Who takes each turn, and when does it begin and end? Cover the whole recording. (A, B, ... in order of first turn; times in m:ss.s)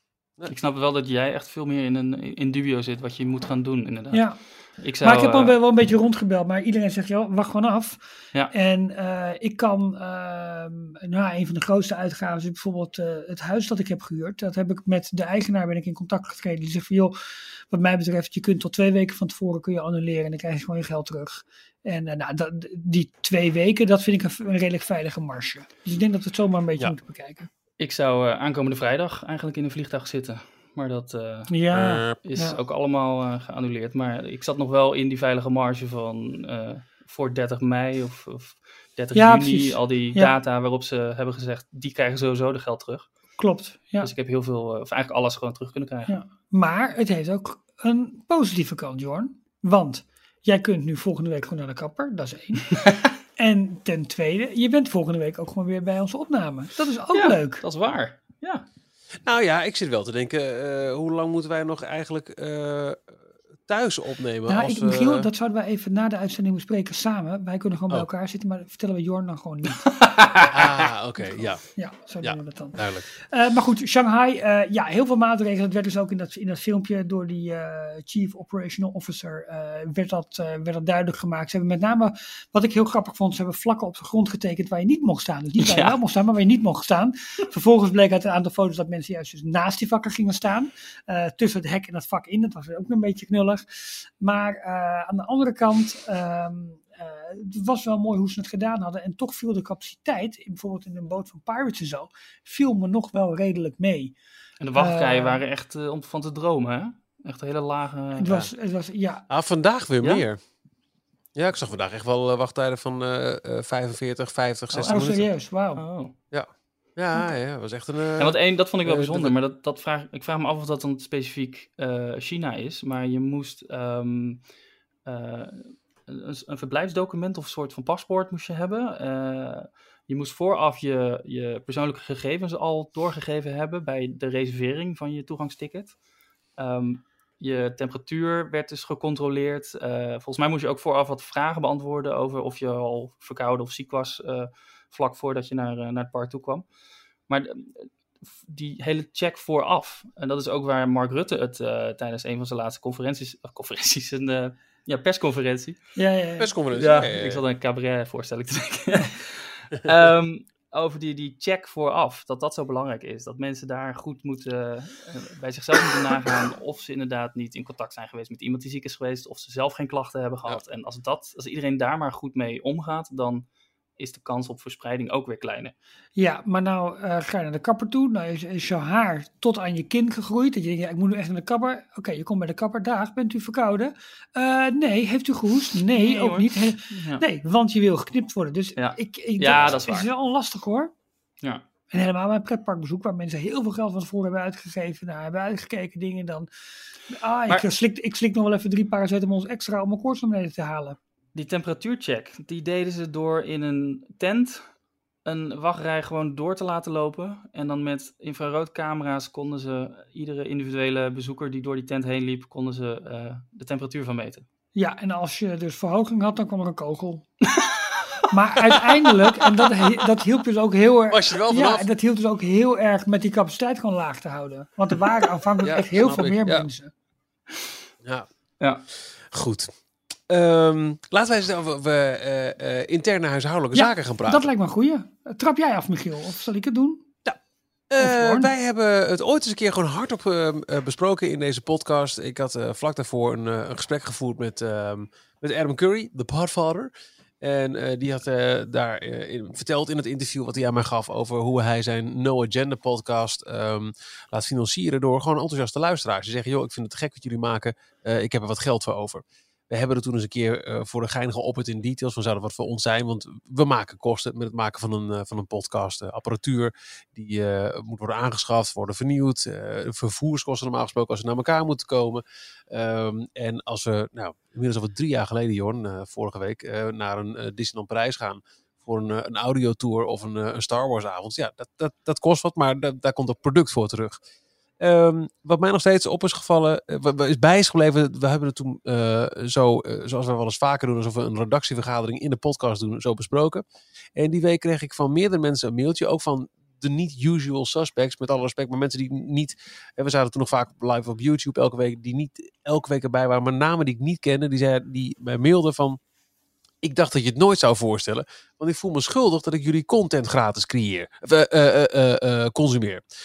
0:00.5-0:05.6 A
0:04.1-0:04.4 B
0:05.0-0:27.5 B
0:27.8-0:31.5 A
0:31.5-0:32.6 B
0:31.7-0:32.2 C
0:32.2-0:43.1 A
0:39.2-0:40.3 B
0:43.4-0:44.1 B
0:44.0-0:46.1 A
0:46.1-0:52.7 B
0:53.4-0:57.6 B
0:57.1-0:58.6 A
0:59.2-1:05.3 C
1:04.5-1:09.8 B
1:10.0-1:10.7 A
1:10.5-1:11.6 C
1:11.3-1:44.2 B
1:12.2-1:13.0 C
1:25.6-1:26.0 A
1:44.6-1:48.3 A
1:44.8-1:45.4 B
1:48.2-1:49.3 B
1:49.3-1:50.4 C
1:51.4-1:55.3 C
1:54.7-1:55.0 A
1:54.8-1:55.8 B
1:55.8-1:56.2 A
1:56.3-1:59.4 C
1:58.2-2:04.4 A
2:05.1-2:16.0 A
2:16.6-2:26.6 A
2:27.3-2:27.9 A
2:28.4-2:35.8 A
2:36.0-2:36.5 B
2:36.4-2:37.4 C
2:36.7-2:53.5 A
2:54.0-2:55.7 A
2:56.2-3:10.9 B
3:05.9-3:07.2 A
3:08.8-3:10.1 A
3:09.5-3:09.9 C
3:11.9-3:16.5 B
3:17.1-3:21.0 B
3:21.4-3:24.7 A
3:25.2-3:34.5 A
3:34.8-3:37.3 B
3:37.5-3:39.7 A
3:38.3-3:46.9 B
3:41.1-3:41.9 C
3:45.6-3:46.7 C
3:49.3-3:49.7 C
3:50.3-3:54.5 C
3:53.8-3:57.0 B
3:57.9-4:44.2 C
3:58.0-3:58.5 B
4:44.8-4:53.6 C
4:54.2-5:06.0 C
5:06.8-5:13.0 C